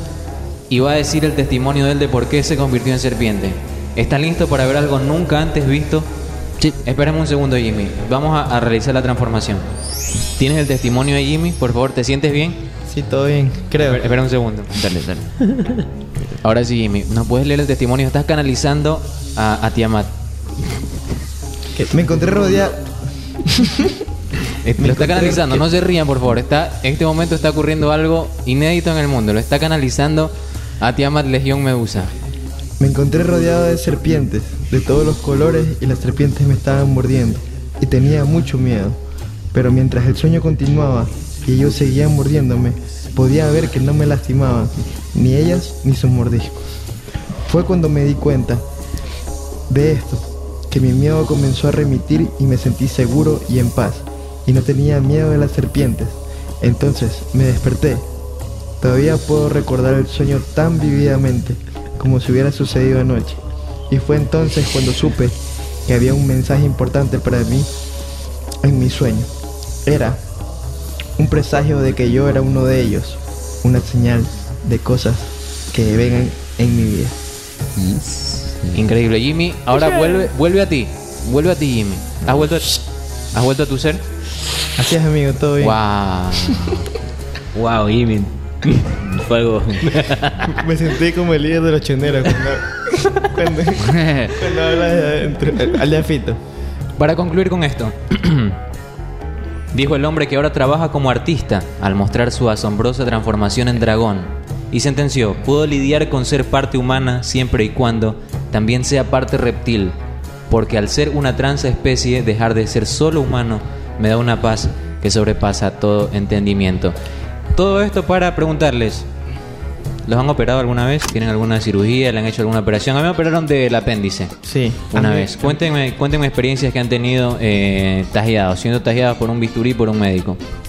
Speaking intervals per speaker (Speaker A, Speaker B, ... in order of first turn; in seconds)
Speaker A: 0.7-6.1, 6.8-9.6, 10.3-12.6, 13.8-14.7, 16.4-20.1, 24.6-32.1, 78.7-84.0, 85.6-86.7, 97.0-98.6, 99.7-109.9, 110.5-116.9, 117.5-119.0, 120.0-124.3, 124.9-130.4
Speaker B: 12.9-14.0, 21.7-23.8, 24.8-25.6, 32.8-39.0, 39.5-46.6, 47.4-48.6, 49.7-58.0, 58.8-67.7, 68.6-70.2, 71.2-77.1, 84.8-86.3, 90.5-96.4, 124.4-125.6
Speaker C: 14.7-15.2, 77.8-78.9, 93.8-94.3
Speaker D: 87.5-90.3